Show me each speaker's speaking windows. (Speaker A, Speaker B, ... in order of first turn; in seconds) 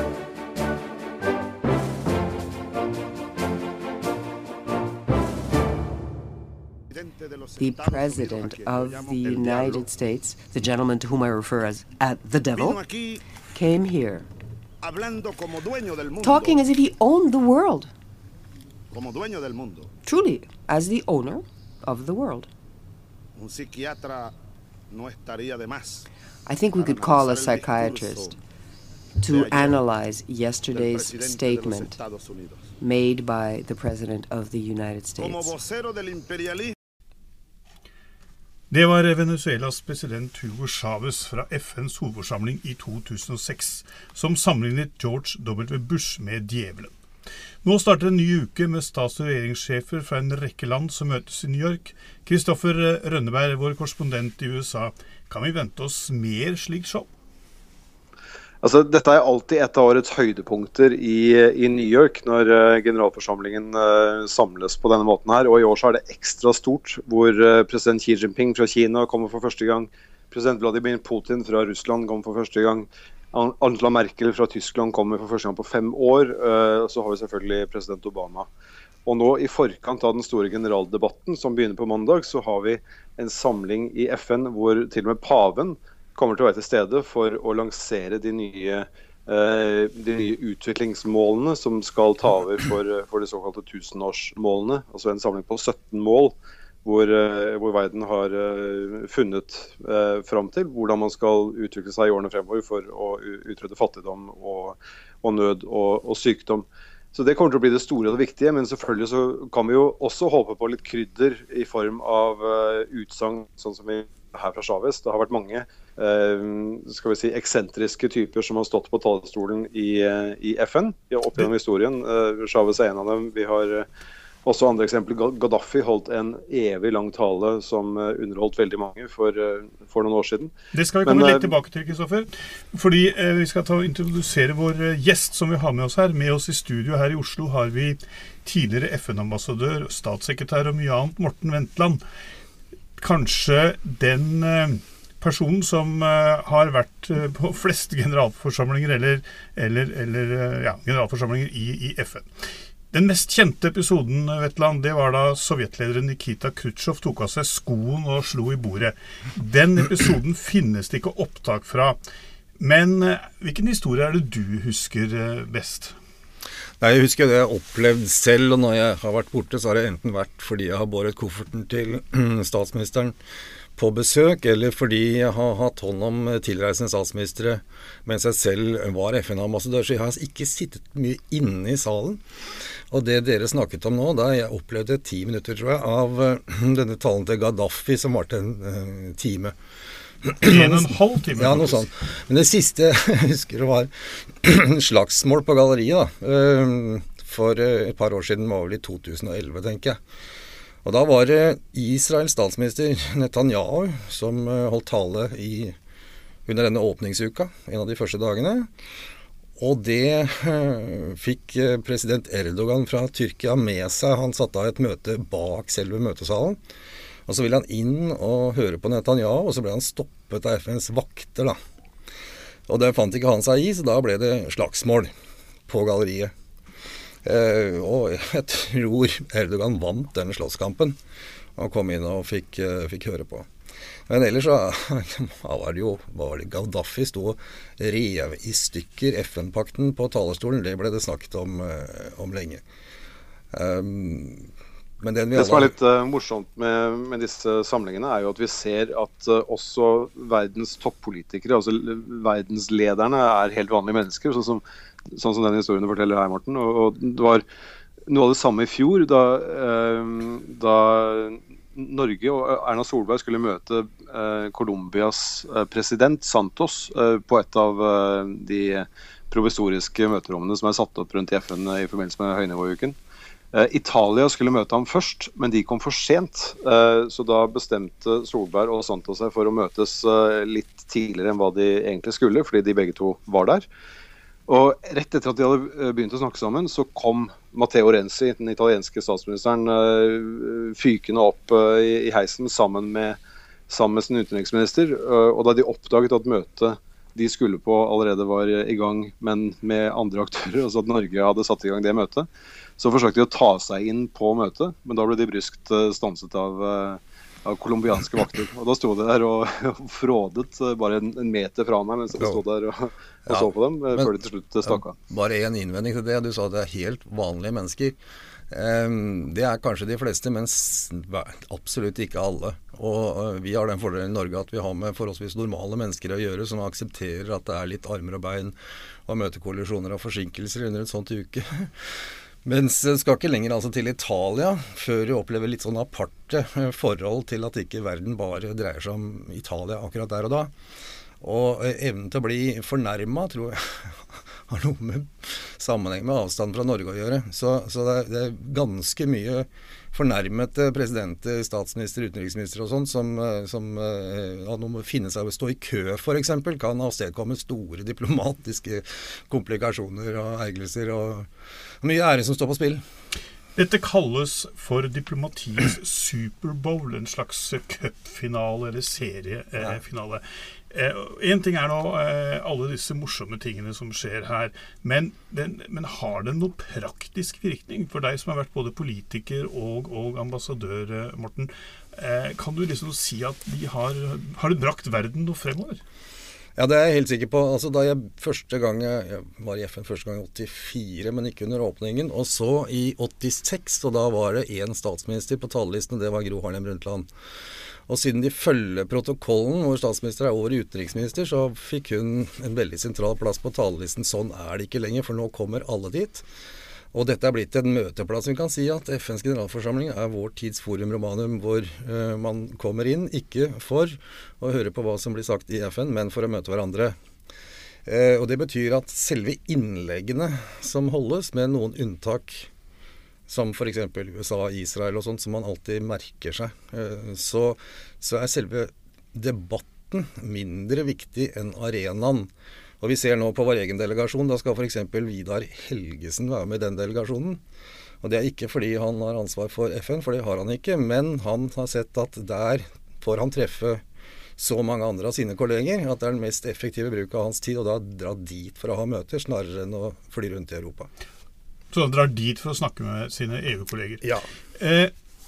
Speaker A: 6.9-10.0, 12.5-13.2, 14.8-16.6, 18.9-19.9, 23.4-24.3, 24.9-26.1, 26.7-28.3, 29.2-29.9, 30.7-32.7, 35.2-36.7
Speaker B: 7.6-12.8, 13.5-14.3, 16.2-17.9, 20.1-22.5, 26.4-28.3, 29.2-31.9, 32.8-35.5
Speaker C: 38.7-46.9, 47.6-57.1, 130.7-142.0, 143.0-152.3, 152.9-162.0, 162.6-165.9, 190.4-191.8, 363.6-385.8, 451.7-454.1, 454.6-454.9
Speaker D: 58.6-78.5, 79.0-123.8, 124.4-130.5, 131.0-131.5, 245.3-257.4, 258.1-273.0, 273.5-283.7, 284.5-314.9
Speaker E: 166.8-173.2, 173.8-182.2, 182.9-189.5, 190.2-200.0, 200.8-205.7, 206.4-208.7, 209.6-216.6, 217.3-221.6, 222.7-225.1, 225.7-226.3, 227.2-231.0, 231.6-233.5, 234.1-242.6, 243.5-244.5, 245.0-245.7, 312.2-312.4, 313.3-314.1, 314.6-317.9, 318.5-331.7, 332.4-340.5, 341.2-361.3, 361.8-362.8, 386.6-397.1, 397.9-406.2, 406.9-416.9, 417.9-422.5, 423.3-437.4, 438.0-443.8, 444.4-450.9